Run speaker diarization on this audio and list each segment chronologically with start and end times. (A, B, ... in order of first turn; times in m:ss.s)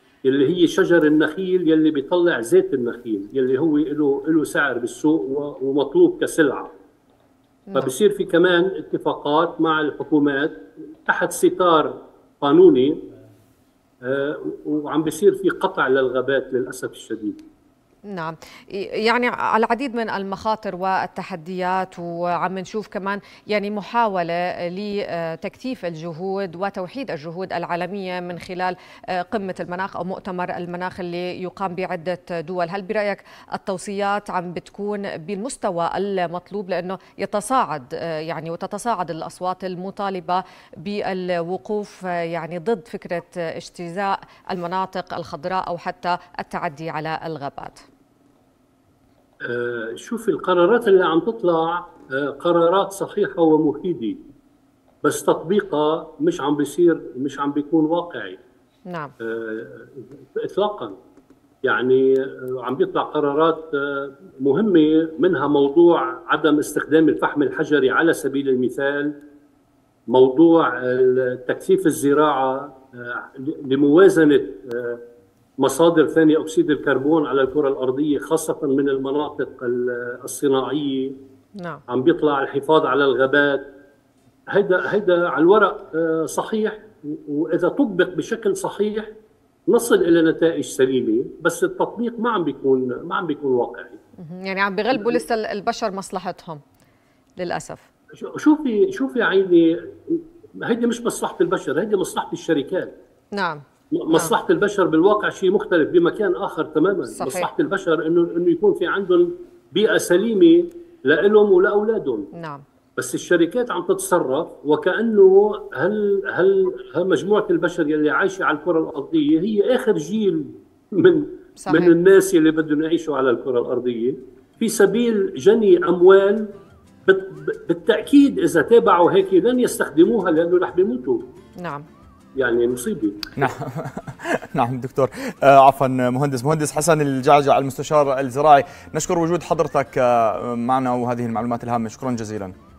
0:00.2-0:06.8 A
0:07.7-0:07.9 B
0:07.8-0:13.0 A
0:14.0-0:17.4 A
0:18.1-0:47.8 B
0:49.4-0:54.2 A
0:55.0-0:58.4 A
0:59.2-1:01.0 A
1:01.6-1:09.1 A
1:10.1-1:15.0 A
1:15.6-1:21.1 A
1:21.9-1:23.7 A
1:24.5-1:29.1 A
1:29.7-1:34.0 A
1:34.2-1:36.6 B
1:34.9-1:35.2 A
1:37.4-1:37.9 B
1:38.2-1:42.9 A
1:43.3-1:44.3 B
1:43.9-1:52.3 A
1:47.2-1:47.5 B
1:52.4-1:52.6 B
1:53.0-2:06.5 A
2:01.6-2:01.9 B
2:07.1-2:11.2 A
2:11.6-2:11.9 B
2:12.4-2:13.4 A
2:13.4-2:22.5 C